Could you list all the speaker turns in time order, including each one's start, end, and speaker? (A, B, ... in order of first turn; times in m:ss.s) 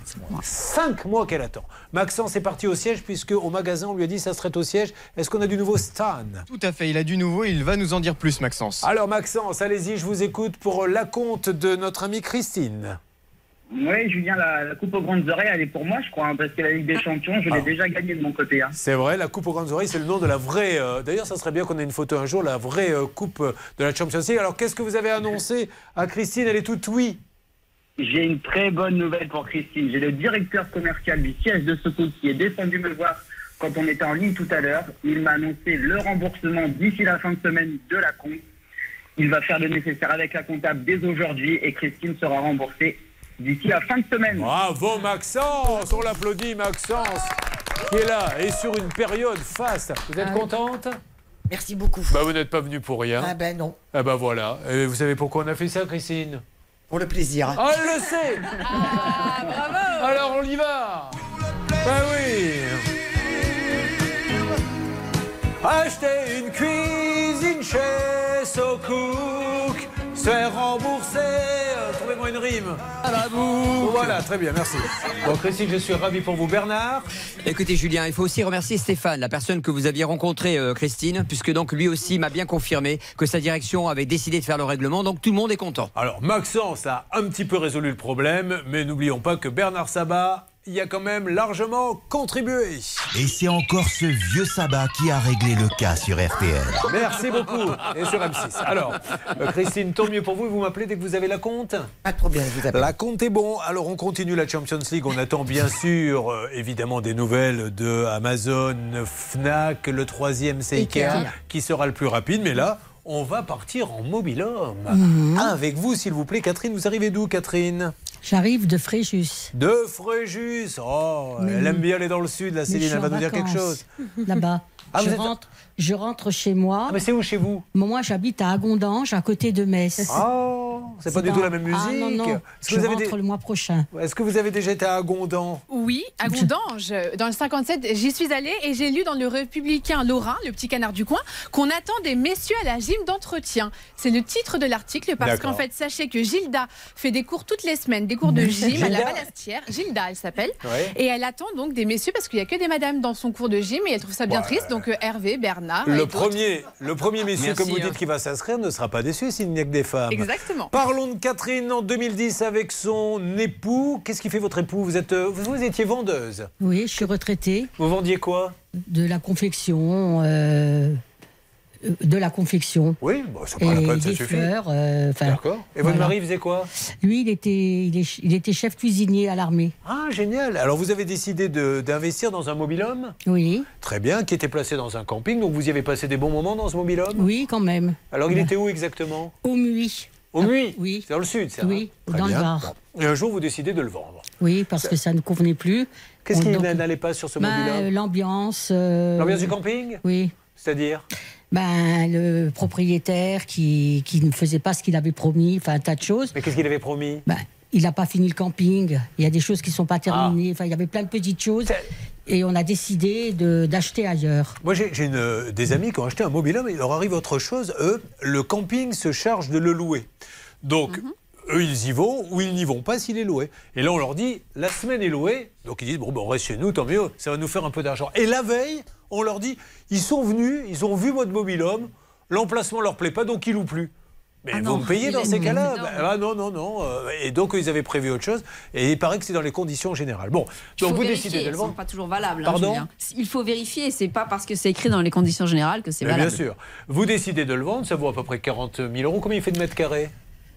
0:00.4-0:06.4 A
0:06.5-0:08.8 B
0:08.8-0:13.0 A
0:13.7-0:18.7 C
0:18.8-0:27.2 A
0:28.0-0:38.4 C
0:39.2-0:44.5 C
0:44.3-0:47.4 A
0:47.9-0:51.0 A
0:51.5-0:52.2 D
0:52.1-0:53.3 A
0:53.2-0:53.8 D
0:53.9-0:56.4 A
0:56.9-0:57.6 D
0:57.6-0:59.3 A
0:59.8-1:01.2 A
1:01.8-1:02.9 A
1:05.6-1:13.0 A
1:13.0-1:13.9 E
1:13.8-1:17.1 A
1:17.4-1:25.9 E
1:26.0-1:33.1 A
1:33.1-1:36.8 F
1:36.8-1:41.9 A
1:42.0-1:42.9 D
1:42.7-1:57.9 A
1:50.8-1:51.3 G
1:54.9-1:55.5 G
1:58.2-1:59.5 G
1:59.5-2:03.8 A
2:01.4-2:01.8 G
2:02.7-2:07.0 G
2:04.9-2:05.4 A
2:06.9-2:07.6 A
2:07.7-2:10.2 G
2:10.1-2:13.1 A
2:11.1-2:13.9 G
2:13.9-2:15.6 A
2:15.7-2:36.4 H
2:16.2-2:16.5 G
2:25.2-2:25.6 A
2:28.5-2:29.2 A
2:30.6-2:30.9 A
2:34.3-2:34.8 A
2:35.8-2:46.5 A
2:37.4-2:38.0 E
2:40.1-2:40.7 H
2:46.6-2:47.7 G
2:47.8-2:48.6 A
2:48.9-2:51.0 G
2:51.8-2:53.0 G
2:53.0-2:54.5 A
2:53.6-2:56.2 G
2:55.2-2:56.7 A
2:57.0-2:59.7 G
2:59.8-3:03.2 A
3:03.3-3:03.7 G
3:03.8-3:07.3 A
3:07.2-3:08.5 G
3:08.1-3:09.3 A
3:09.4-3:11.0 G
3:10.3-3:14.3 A
3:11.6-3:12.7 G
3:14.4-3:16.8 G
3:16.2-3:17.9 A
3:17.4-3:20.3 G
3:19.2-3:20.0 A
3:20.6-3:21.0 A
3:21.5-3:26.3 G
3:26.4-3:27.2 A
3:27.3-3:31.7 G
3:30.1-3:30.4 A
3:32.3-3:34.6 G
3:34.6-3:40.1 A
3:40.6-3:53.9 A
3:54.4-4:01.8 A
3:54.6-3:56.1 I
3:54.8-3:55.6 G
4:00.8-4:06.4 I
4:02.4-4:02.8 A
4:06.0-4:10.1 A